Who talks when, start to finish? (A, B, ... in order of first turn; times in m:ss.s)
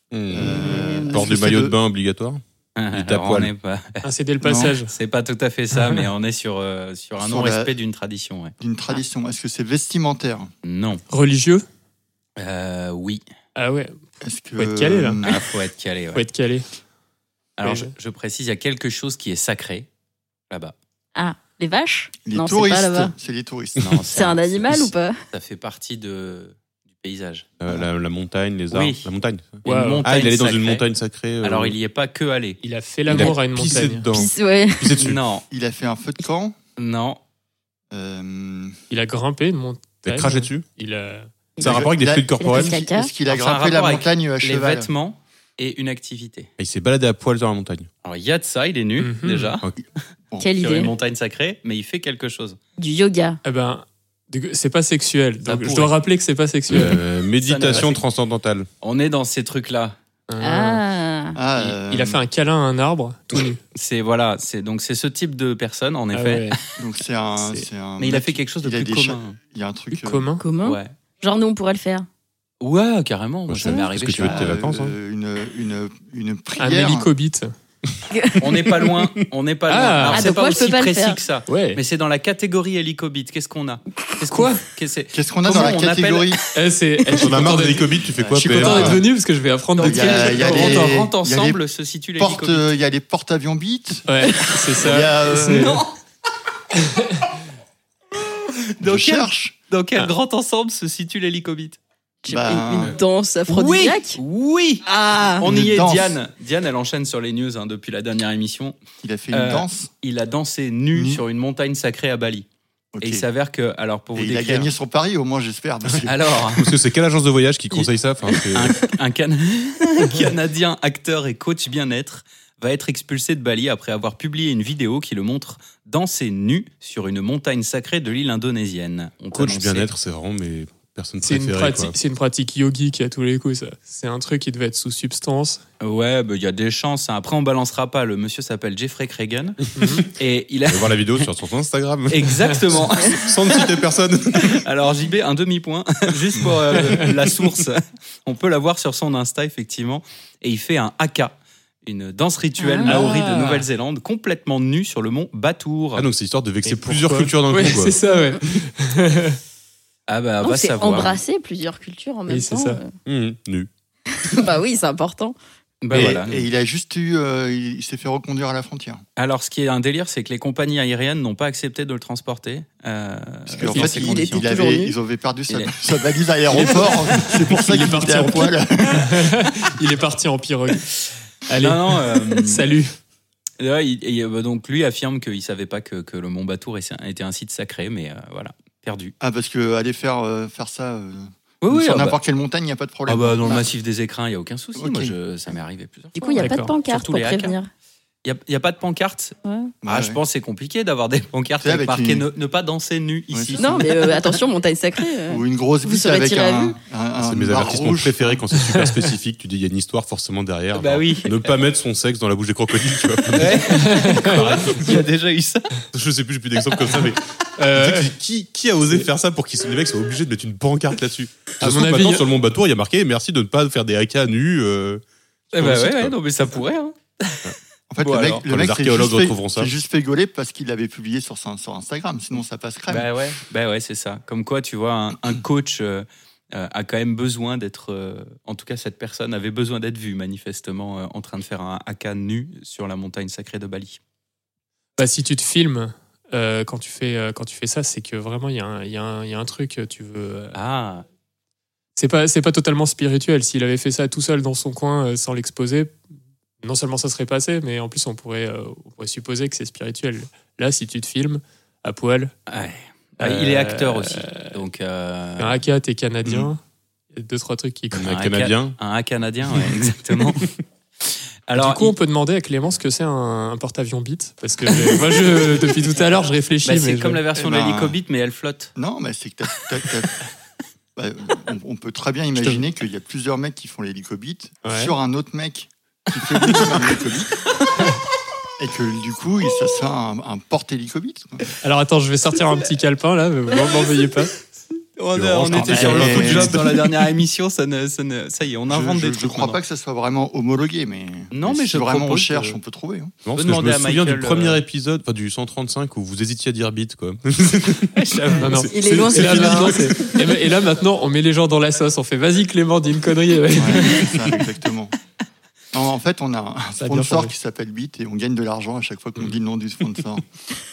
0:00.1-0:03.5 A
0:00.3-0:01.8 B
0:00.5-0:01.2 C
0:02.8-0:04.0 D
0:04.0-0:04.9 E
0:04.4-0:04.8 B
0:04.8-0:08.5 D
0:07.2-0:07.8 B
0:08.6-0:10.5 B
0:10.6-0:11.0 D
0:11.1-0:11.6 E
0:12.4-0:13.2 D
0:13.6-0:14.0 E
0:14.2-0:15.3 B
0:14.6-0:15.4 E
0:15.2-0:16.3 D
0:16.2-0:16.6 E
0:17.6-0:19.9 D
0:17.6-0:17.9 E
0:20.5-0:20.8 D
0:21.2-0:23.1 C
0:22.2-0:24.0 B
0:23.8-0:27.5 D
0:24.1-0:25.2 C
0:27.6-0:31.8 A
0:28.7-0:29.1 D
0:29.6-0:30.9 D
0:29.7-0:30.0 E
0:31.4-0:32.6 D
0:32.6-0:34.1 E
0:33.1-0:35.2 A
0:34.1-0:34.9 C
0:35.0-0:35.5 D
0:35.5-0:36.6 B
0:36.8-0:37.2 D
0:37.9-0:38.8 B
0:38.9-0:41.3 E
0:40.0-0:40.6 A
0:41.6-0:42.8 A
0:41.6-0:44.9 B
0:42.4-0:43.1 C
0:43.3-0:46.5 D
0:46.6-0:47.9 A
0:48.0-0:49.7 D
0:49.0-0:49.5 E
0:50.4-0:50.9 C
0:50.6-0:52.6 D
0:52.8-0:53.4 C
0:53.4-0:57.0 E
0:55.4-0:56.0 D
0:56.7-0:58.7 A
0:57.4-0:58.0 D
0:58.8-1:00.0 D
1:00.3-1:00.8 E
1:00.4-1:01.4 C
1:01.4-1:02.2 B
1:01.9-1:03.6 E
1:03.8-1:06.6 D
1:06.1-1:06.6 E
1:06.8-1:10.3 B
1:07.4-1:07.7 E
1:08.0-1:09.4 D
1:09.9-1:10.4 E
1:10.4-1:12.1 C
1:10.6-1:10.9 D
1:12.6-1:14.5 D
1:13.5-1:15.0 A
1:14.2-1:17.1 B
1:16.6-1:17.5 E
1:18.1-1:18.4 C
1:18.4-1:26.4 D
1:19.7-1:20.2 E
1:20.1-1:21.2 C
1:21.5-1:21.8 E
1:24.3-1:24.6 E
1:25.1-1:26.4 B
1:26.5-1:31.0 E
1:27.2-1:29.0 A
1:28.1-1:29.0 B
1:29.8-1:31.6 B
1:29.8-1:32.8 D
1:32.2-1:34.1 B
1:34.1-1:35.8 E
1:34.8-1:35.8 B
1:35.5-1:35.8 D
1:38.8-1:41.8 D
1:38.8-1:39.6 B
1:42.2-1:44.2 C
1:42.3-1:43.0 B
1:43.5-1:48.8 D
1:44.8-1:45.5 C
1:45.4-1:46.2 B
1:49.0-1:49.9 B
1:49.3-1:52.5 D
1:50.9-1:51.2 B
1:53.0-1:53.2 B
1:53.0-1:54.7 D
1:54.2-1:56.4 B
1:56.1-1:56.7 D
1:56.6-1:58.8 A
1:58.5-2:09.9 D
2:09.3-2:12.0 A
2:11.2-2:15.6 E
2:15.8-2:19.6 D
2:19.8-2:20.0 A
2:19.8-2:20.1 E
2:20.2-2:21.3 D
2:20.7-2:24.6 A
2:22.1-2:23.7 D
2:24.5-2:36.1 D
2:26.4-2:26.9 B
2:32.6-2:33.1 C
2:32.9-2:33.7 E
2:36.0-2:37.9 A
2:36.6-2:39.4 E
2:40.1-2:41.2 D
2:40.4-2:42.9 C
2:42.3-2:42.8 E
2:43.0-2:43.7 A
2:44.1-2:45.4 C
2:45.8-2:46.4 D
2:45.9-2:49.0 B
2:49.2-2:54.5 D
2:53.5-2:59.5 B
2:53.7-2:54.0 E
2:53.9-2:55.0 C
2:55.5-2:55.7 D
2:56.5-3:00.9 E
3:01.5-3:02.9 E
3:01.6-3:02.7 D
3:03.6-3:09.1 D
3:09.2-3:13.7 B
3:11.6-3:12.2 D
3:13.1-3:17.6 D
3:14.8-3:15.1 B
3:16.2-3:17.7 C
3:16.4-3:16.7 E
3:18.2-3:24.3 D
3:19.4-3:19.7 C
3:19.8-3:20.2 B
3:21.6-3:22.3 B
3:23.3-3:23.9 B
3:23.6-3:26.8 C
3:25.3-3:28.4 B
3:27.2-3:35.1 A
3:28.6-3:29.1 E
3:30.7-3:31.5 D
3:33.4-3:35.8 D
3:33.7-3:34.5 E
3:35.9-3:45.0 A
3:36.7-3:37.0 D
3:37.6-3:38.1 E
3:41.6-3:42.3 E
3:45.5-3:48.5 D
3:45.5-3:46.2 A
3:47.9-3:53.1 B
3:48.5-3:49.7 A
3:52.9-4:04.0 D
4:05.0-4:10.6 E
4:10.5-4:11.1 D
4:12.0-4:16.0 E
4:16.6-4:22.3 E
4:22.5-4:25.6 D
4:23.2-4:24.6 E
4:25.4-4:26.6 E
4:27.1-4:28.2 E
4:27.9-4:28.8 A
4:28.1-4:30.5 D
4:31.5-4:32.0 D
4:31.6-4:37.2 E
4:36.6-4:38.7 D
4:37.4-4:38.0 B
4:38.8-4:40.2 B
4:41.0-4:47.5 B
4:42.4-4:42.6 E
4:44.6-4:44.9 E
4:48.6-4:51.5 B
4:51.6-4:54.4 E
4:55.0-4:59.6 D
4:55.2-4:56.9 A
4:55.5-4:56.6 B
4:58.7-5:03.2 B
5:01.3-5:02.6 D
5:03.2-5:10.4 A
5:03.3-5:04.6 D
5:08.0-5:08.5 D
5:08.3-5:14.4 E
5:08.7-5:09.9 C
5:09.2-5:09.5 D
5:13.5-5:15.0 B
5:15.7-5:20.3 B
5:16.8-5:17.3 E